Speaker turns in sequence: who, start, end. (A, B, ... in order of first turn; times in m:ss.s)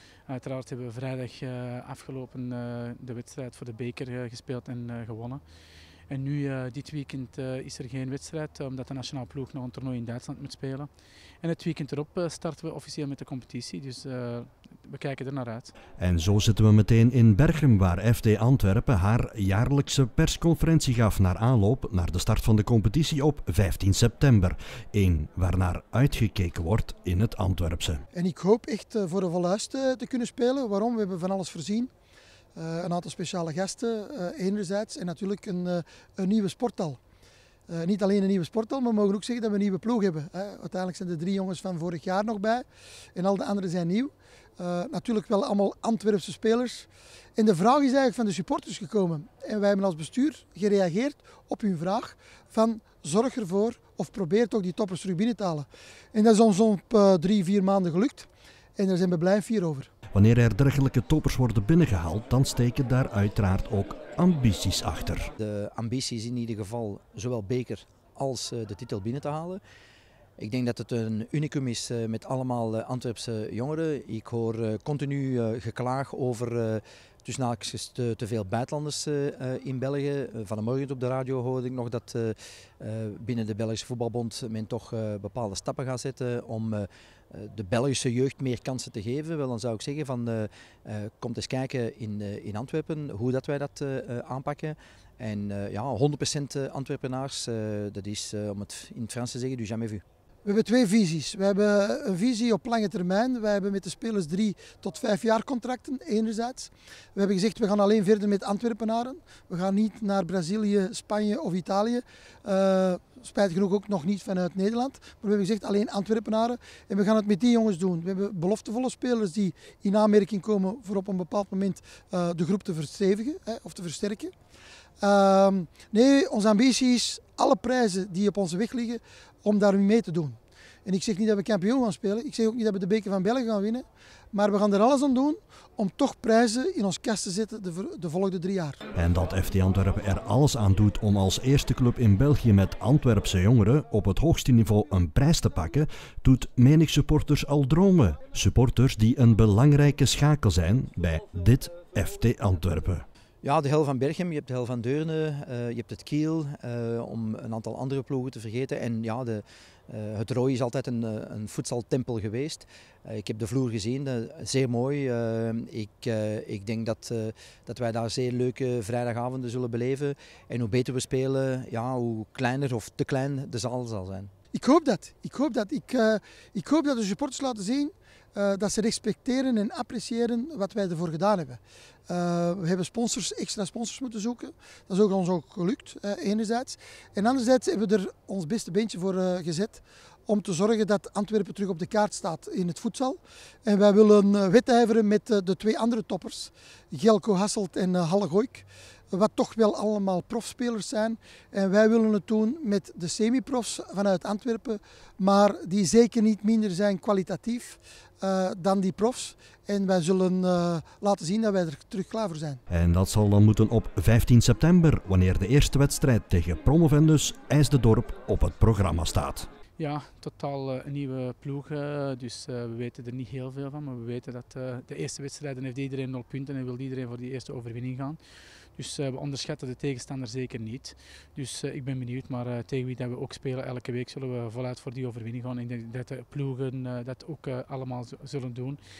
0:00.3-0:05.4 A
0:06.1-0:10.9 A
0:11.4-0:15.7 A
0:16.0-0:28.0 B
0:28.1-0:31.9 C
0:32.6-0:37.0 C
0:37.7-0:59.9 C
1:00.1-1:05.3 B
1:05.4-1:09.6 D
1:10.4-1:40.0 D
1:40.4-2:04.3 C
2:05.0-2:18.8 C
2:18.9-2:33.0 B
2:33.4-2:54.3 D
2:54.5-3:32.6 C
3:32.7-3:39.5 B
3:39.8-3:48.2 A
3:48.8-3:58.8 A